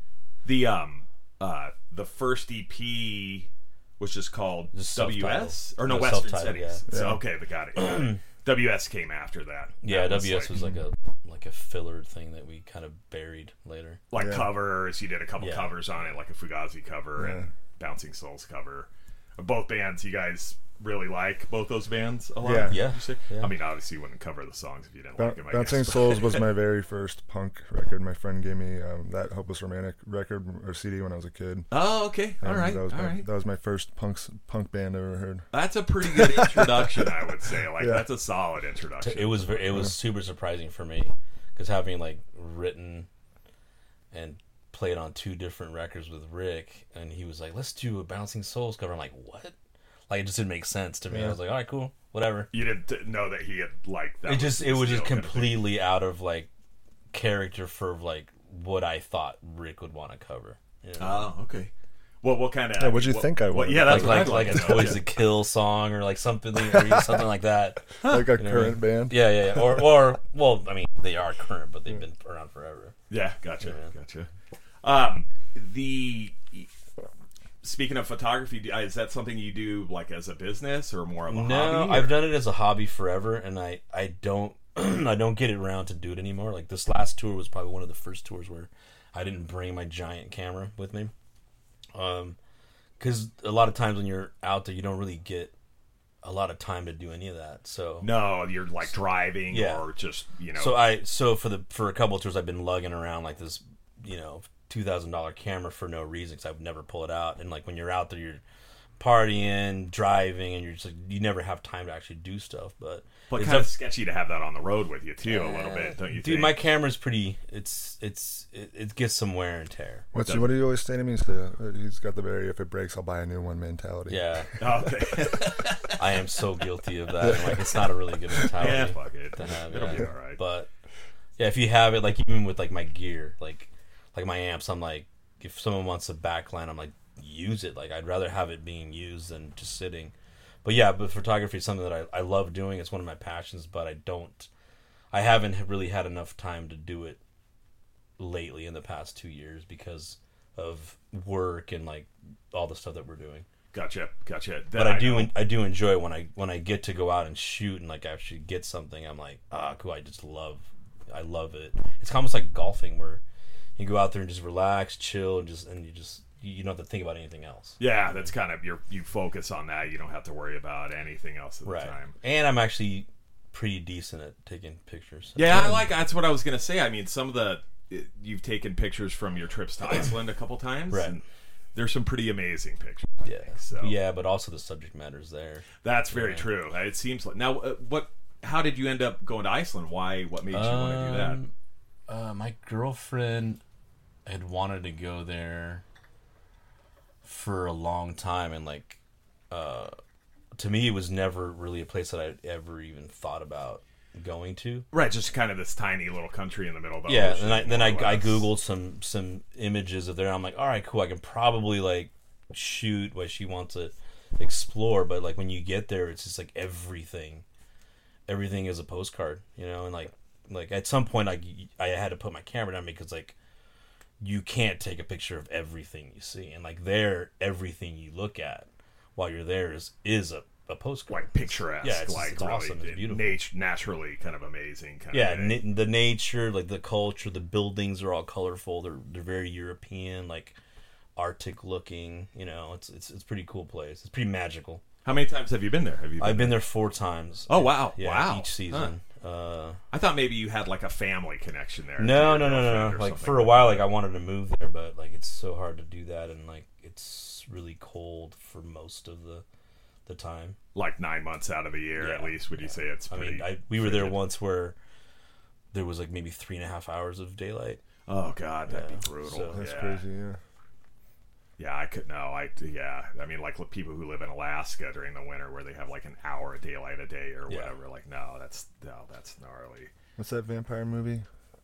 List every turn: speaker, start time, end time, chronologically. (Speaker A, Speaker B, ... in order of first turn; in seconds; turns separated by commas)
Speaker A: 0.4-10.7, Speaker B: 4.7-6.8, Speaker C: 6.9-7.2, Speaker B: 7.8-8.2, Speaker B: 9.8-14.0, Speaker A: 14.1-26.5, Speaker C: 14.2-14.5, Speaker B: 15.4-15.8, Speaker C: 17.2-17.5, Speaker C: 22.4-22.9, Speaker B: 22.7-23.5, Speaker C: 25.2-31.7, Speaker A: 31.7-33.3, Speaker C: 32.4-35.5, Speaker A: 35.5-39.9, Speaker C: 36.0-37.1, Speaker C: 37.8-38.0, Speaker B: 39.0-43.1, Speaker B: 44.1-49.5, Speaker B: 50.1-52.5, Speaker C: 51.1-51.4, Speaker A: 52.5-55.7, Speaker B: 54.2-56.5, Speaker B: 57.1-61.3, Speaker A: 61.0-61.7, Speaker A: 62.2-65.0, Speaker C: 62.8-65.0, Speaker B: 63.9-73.0, Speaker C: 66.7-67.2, Speaker C: 68.0-69.8, Speaker A: 68.0-68.3, Speaker A: 73.1-74.3, Speaker B: 73.6-73.9, Speaker A: 74.8-76.7, Speaker A: 77.6-82.3, Speaker B: 81.3-91.1, Speaker B: 91.9-92.4, Speaker B: 93.0-95.5, Speaker B: 96.2-98.1, Speaker A: 98.0-100.8, Speaker B: 99.5-99.9, Speaker B: 100.6-108.4, Speaker B: 109.0-113.7, Speaker A: 113.3-116.7, Speaker B: 115.3-120.0, Speaker C: 120.1-124.6, Speaker A: 120.2-120.5, Speaker B: 124.1-124.6, Speaker A: 124.6-126.0, Speaker B: 125.3-130.7, Speaker C: 127.2-127.8, Speaker A: 128.4-130.4, Speaker B: 131.4-140.1, Speaker B: 140.6-144.5, Speaker B: 145.1-147.2, Speaker B: 148.2-153.5, Speaker A: 153.7-155.3, Speaker B: 154.8-163.2, Speaker B: 163.8-167.8, Speaker A: 167.8-172.1, Speaker B: 171.7-175.9, Speaker A: 175.4-181.2, Speaker B: 180.9-181.2, Speaker A: 181.8-183.9, Speaker B: 183.2-186.4, Speaker A: 185.8-191.4, Speaker B: 190.5-191.5, Speaker B: 192.1-193.6, Speaker B: 194.3-195.8, Speaker B: 197.2-199.0, Speaker B: 199.5-200.0, Speaker B: 200.6-204.9, Speaker A: 204.9-208.5, Speaker B: 207.1-217.4, Speaker B: 218.3-223.3, Speaker B: 224.2-233.4, Speaker A: 231.1-235.6, Speaker B: 235.1-240.6, Speaker B: 241.2-244.8, Speaker A: 245.1-246.6, Speaker B: 246.2-249.8, Speaker A: 247.5-248.9, Speaker A: 249.9-253.9, Speaker B: 252.0-259.4, Speaker B: 260.1-260.6, Speaker A: 260.7-264.2, Speaker B: 262.0-264.8, Speaker B: 265.7-267.8, Speaker A: 268.1-270.1, Speaker B: 268.7-269.6, Speaker C: 269.5-270.4, Speaker A: 271.6-279.9, Speaker C: 280.2-281.3